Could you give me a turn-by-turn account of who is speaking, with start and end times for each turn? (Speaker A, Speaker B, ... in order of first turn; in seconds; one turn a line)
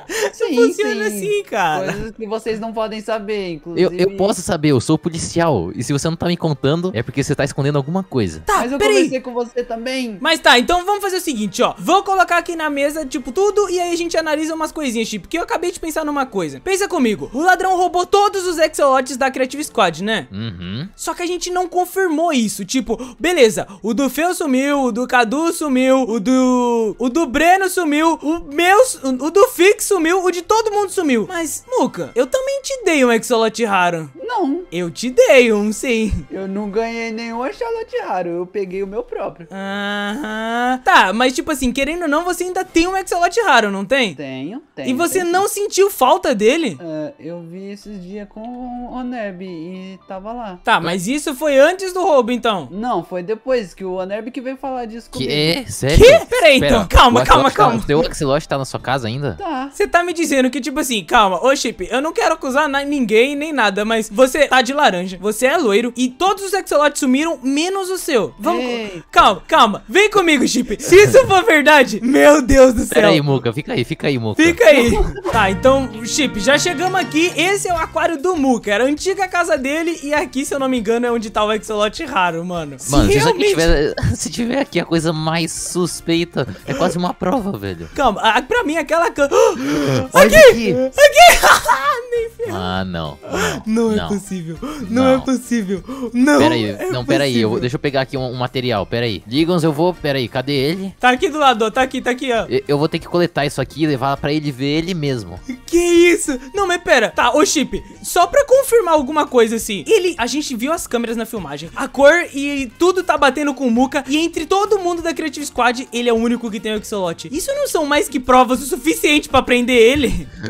Speaker A: 0.2-2.0
Speaker B: 0.3-4.4
Speaker C: 3.7-8.5
Speaker A: 8.5-9.1
Speaker B: 8.6-10.2
Speaker A: 10.2-20.3
Speaker C: 20.3-20.9
Speaker A: 21.0-34.1
Speaker B: 34.1-34.7
Speaker A: 34.7-36.2
Speaker B: 36.3-39.5
Speaker A: 39.5-44.2
Speaker B: 44.2-45.4
Speaker A: 44.8-46.8
Speaker B: 46.8-50.6
Speaker A: 50.6-52.7
Speaker B: 52.7-55.6
Speaker C: 55.1-59.4
Speaker A: 55.9-58.0
Speaker B: 59.4-59.8
Speaker A: 59.7-73.3
Speaker B: 68.4-69.1
Speaker C: 72.9-74.6
Speaker A: 74.4-83.7
Speaker C: 82.8-87.9
Speaker A: 87.9-92.7
Speaker C: 90.1-90.8
Speaker C: 92.5-95.3
Speaker A: 93.3-97.7
Speaker C: 96.4-101.0
Speaker A: 101.0-102.5
Speaker C: 102.5-105.4
Speaker A: 105.5-120.3